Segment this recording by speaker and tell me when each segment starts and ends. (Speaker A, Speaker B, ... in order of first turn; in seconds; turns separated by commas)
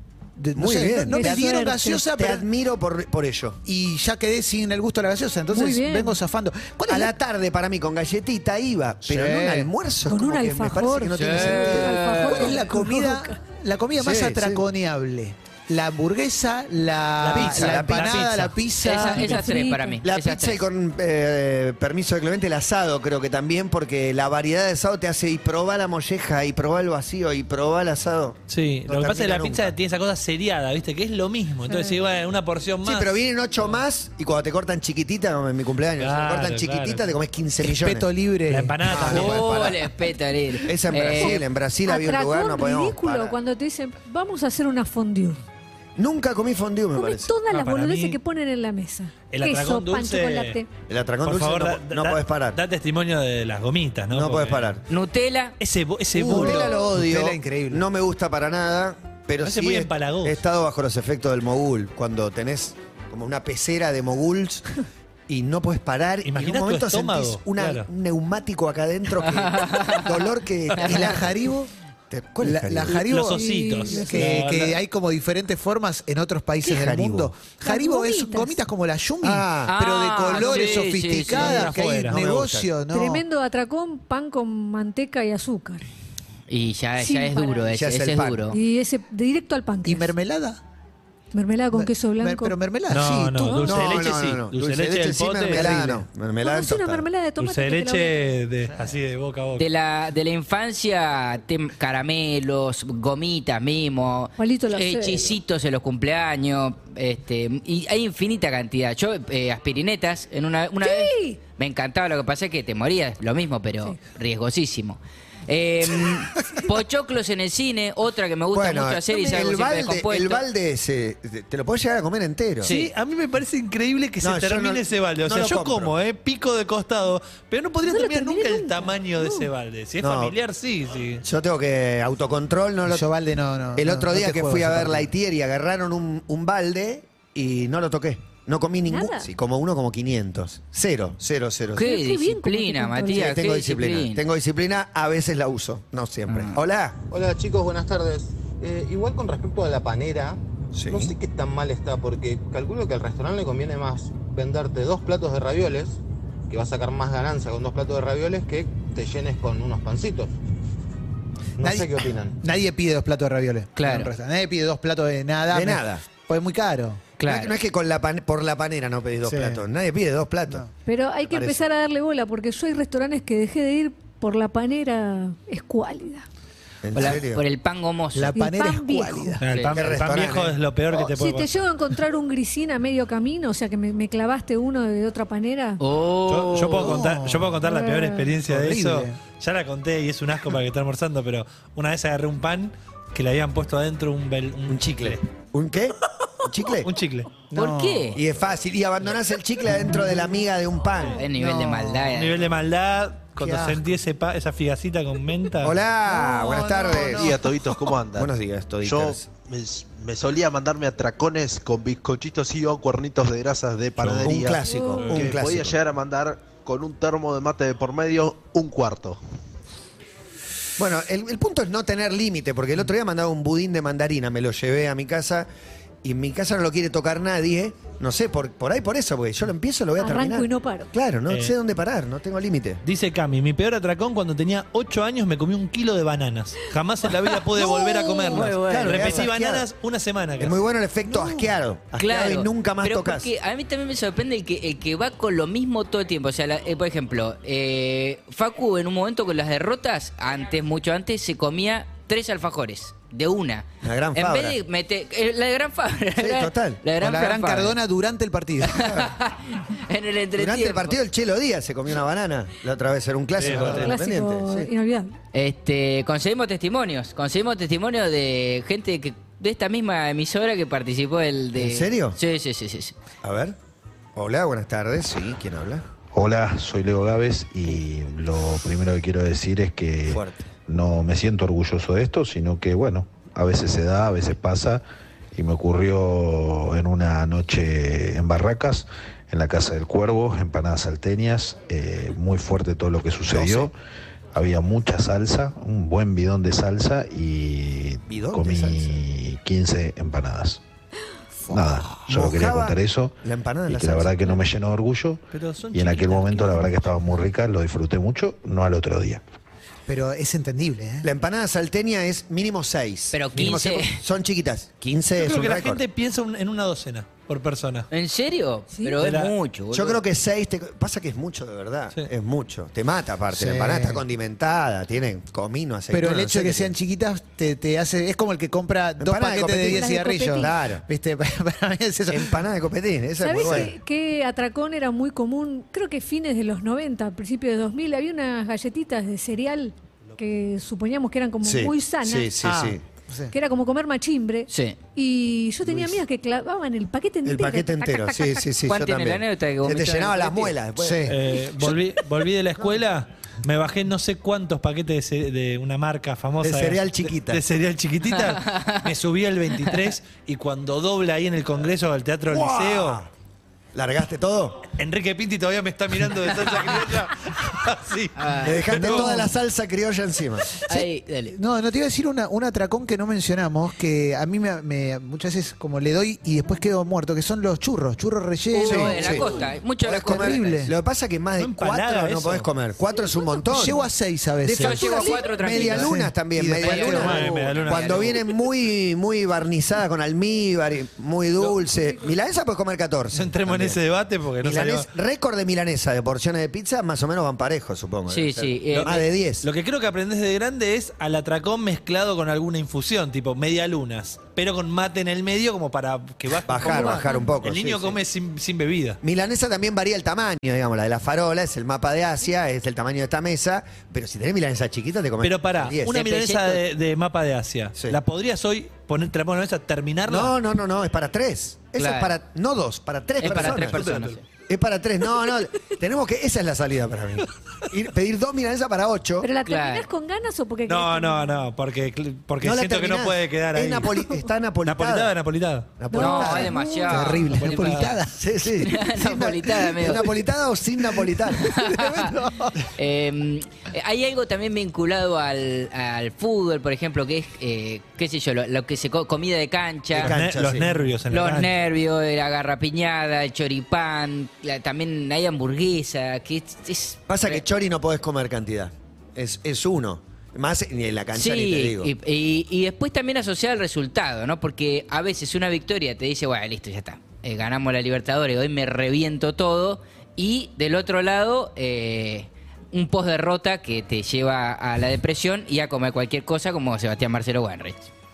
Speaker A: 0.4-2.5, Speaker B: 0.6-1.5, Speaker C: 1.1-2.1, Speaker B: 2.1-3.6, Speaker A: 3.6-7.1, Speaker C: 5.5-6.2, Speaker B: 6.9-12.0, Speaker A: 9.0-9.7, Speaker C: 10.1-13.4, Speaker D: 11.2-12.6, Speaker A: 12.3-19.4, Speaker B: 14.0-14.6, Speaker E: 17.2-18.5, Speaker B: 17.3-18.5, Speaker D: 18.8-20.6, Speaker C: 19.0-20.0, Speaker B: 20.0-29.7, Speaker E: 28.5-33.1, Speaker B: 32.8-38.1, Speaker E: 36.0-37.1, Speaker A: 37.6-39.0, Speaker E: 38.5-39.7, Speaker B: 38.9-39.8, Speaker D: 39.0-41.4, Speaker B: 40.6-43.4, Speaker C: 41.1-45.4, Speaker B: 46.0-47.3, Speaker C: 46.9-50.7, Speaker E: 47.5-48.2, Speaker E: 49.3-50.6, Speaker B: 50.9-52.6, Speaker E: 51.2-54.7, Speaker B: 54.1-54.8, Speaker D: 54.9-55.5, Speaker E: 55.6-56.7, Speaker B: 56.1-64.7, Speaker A: 56.2-57.8, Speaker E: 59.4-60.4, Speaker B: 65.3-71.4, Speaker E: 66.2-67.9, Speaker D: 69.4-70.1, Speaker A: 70.8-71.7, Speaker B: 72.1-73.0, Speaker A: 72.4-83.2, Speaker E: 72.9-74.8, Speaker C: 73.3-74.3, Speaker B: 76.6-77.4, Speaker C: 77.6-78.6, Speaker B: 79.2-79.7, Speaker D: 79.7-81.6, Speaker E: 81.3-82.2, Speaker B: 81.4-82.8, Speaker C: 82.9-85.8, Speaker D: 86.5-88.6, Speaker C: 87.0-87.7, Speaker B: 87.7-88.4, Speaker C: 88.5-90.1, Speaker A: 89.8-90.6, Speaker C: 91.3-92.6, Speaker A: 91.7-93.6, Speaker E: 92.9-95.8, Speaker C: 93.4-93.7, Speaker B: 93.7-97.1, Speaker A: 95.5-96.0, Speaker C: 96.4-98.2, Speaker E: 97.4-99.7, Speaker D: 99.6-120.4, Speaker C: 104.4-105.3, Speaker C: 110.8-111.4, Speaker B: 118.5-122.7, Speaker D: 122.6-122.9, Speaker E: 122.6-131.2, Speaker B: 124.2-125.9, Speaker C: 127.8-129.5, Speaker B: 130.0-130.3, Speaker B: 131.2-133.1, Speaker A: 132.8-135.1, Speaker B: 133.8-141.9, Speaker C: 138.9-139.3, Speaker C: 141.8-143.3, Speaker D: 141.8-144.2, Speaker B: 143.1-147.0, Speaker D: 146.3-146.6, Speaker F: 147.1-160.3, Speaker B: 150.7-151.1, Speaker F: 161.6-162.4, Speaker A: 161.6-167.0, Speaker D: 163.8-164.1, Speaker B: 165.5-166.1, Speaker D: 167.2-167.5, Speaker B: 167.2-170.6, Speaker A: 169.2-169.6, Speaker C: 170.8-176.2, Speaker B: 171.3-171.6, Speaker B: 176.8-177.4, Speaker D: 176.9-178.4, Speaker A: 178.1-179.4, Speaker C: 178.3-179.4, Speaker E: 179.4-181.5, Speaker D: 179.4-179.8, Speaker B: 179.7-180.6, Speaker C: 181.0-185.8, Speaker D: 185.8-187.0, Speaker E: 186.3-195.2, Speaker A: 186.8-187.6, Speaker C: 187.7-188.2, Speaker A: 188.4-189.2, Speaker B: 194.7-196.9, Speaker E: 196.8-197.3, Speaker A: 197.5-198.2, Speaker D: 197.5-198.2, Speaker B: 198.1-201.2, Speaker D: 201.1-202.3, Speaker A: 201.3-202.1, Speaker E: 202.1-205.8, Speaker A: 203.4-203.8, Speaker B: 205.6-207.4, Speaker A: 206.1-207.4, Speaker C: 206.6-207.1, Speaker G: 207.1-219.2, Speaker B: 208.1-209.3, Speaker B: 214.0-215.8, Speaker C: 214.6-215.1, Speaker E: 215.0-215.3, Speaker B: 220.8-225.5, Speaker B: 226.0-232.8, Speaker C: 230.0-230.9, Speaker E: 231.3-231.5, Speaker E: 232.8-240.6, Speaker C: 237.5-238.5, Speaker B: 238.3-239.6, Speaker D: 238.3-239.0, Speaker B: 240.4-243.3, Speaker A: 241.0-241.5, Speaker D: 242.0-257.8, Speaker B: 253.8-254.6, Speaker B: 256.2-256.8, Speaker A: 256.9-258.9, Speaker D: 258.6-260.9, Speaker B: 258.8-259.1, Speaker B: 260.4-264.7, Speaker E: 263.4-264.0, Speaker C: 263.6-265.1, Speaker D: 265.3-272.9, Speaker B: 271.6-272.2, Speaker B: 273.2-273.6, Speaker B: 274.1-275.8, Speaker H: 276.1-284.8, Speaker B: 280.1-280.4, Speaker H: 285.3-293.7, Speaker B: 293.3-293.7, Speaker H: 294.3-300.6, Speaker B: 298.1-299.0, Speaker H: 301.5-309.2, Speaker A: 301.5-302.0, Speaker B: 302.1-304.4, Speaker E: 305.3-307.0, Speaker A: 309.9-311.1, Speaker B: 311.0-315.8, Speaker D: 313.1-314.0, Speaker E: 315.1-317.9, Speaker D: 317.9-320.0, Speaker E: 319.0-319.3, Speaker B: 319.7-326.8, Speaker A: 323.3-324.0, Speaker A: 325.9-332.4, Speaker B: 329.0-330.8, Speaker C: 329.7-330.5, Speaker B: 332.1-333.7, Speaker C: 333.2-342.3, Speaker B: 341.4-342.8, Speaker A: 342.4-343.3, Speaker C: 343.3-348.4, Speaker D: 344.5-344.8, Speaker B: 347.2-351.1, Speaker D: 348.6-350.5, Speaker A: 350.8-351.1, Speaker E: 351.1-363.0, Speaker B: 356.4-357.4, Speaker D: 358.4-358.8, Speaker B: 362.3-363.1, Speaker B: 363.7-364.6, Speaker E: 364.8-369.2, Speaker D: 368.1-368.6, Speaker B: 368.4-370.5, Speaker A: 368.9-369.3, Speaker D: 370.7-371.3, Speaker A: 371.3-379.3, Speaker D: 378.5-380.6, Speaker B: 378.6-379.3, Speaker B: 379.8-383.8, Speaker A: 379.9-380.7, Speaker E: 381.4-382.5, Speaker A: 383.5-384.9, Speaker B: 384.4-393.8, Speaker D: 384.5-385.9, Speaker A: 385.5-387.4, Speaker E: 386.6-388.2, Speaker D: 386.6-388.1, Speaker E: 393.1-394.9, Speaker B: 394.4-399.4, Speaker D: 398.1-399.0, Speaker E: 398.7-409.0, Speaker B: 406.4-408.0, Speaker C: 406.6-407.4, Speaker B: 409.0-415.9, Speaker E: 415.2-420.3, Speaker D: 415.9-416.6, Speaker B: 420.1-423.8, Speaker D: 421.8-422.1, Speaker D: 423.2-424.2, Speaker E: 423.2-424.2, Speaker B: 424.5-429.3, Speaker C: 429.2-431.4, Speaker D: 429.4-429.8, Speaker E: 430.7-434.0, Speaker B: 432.4-435.1, Speaker E: 434.6-435.7, Speaker B: 435.8-437.1, Speaker C: 435.9-436.9, Speaker D: 435.9-437.9, Speaker A: 436.8-438.2, Speaker E: 437.3-437.9, Speaker B: 438.1-441.6, Speaker D: 438.6-440.1, Speaker D: 441.4-442.1, Speaker A: 441.6-442.5, Speaker D: 442.8-450.1, Speaker E: 449.9-451.5, Speaker B: 450.0-450.7, Speaker D: 451.1-457.4, Speaker B: 457.1-461.9, Speaker D: 461.1-477.9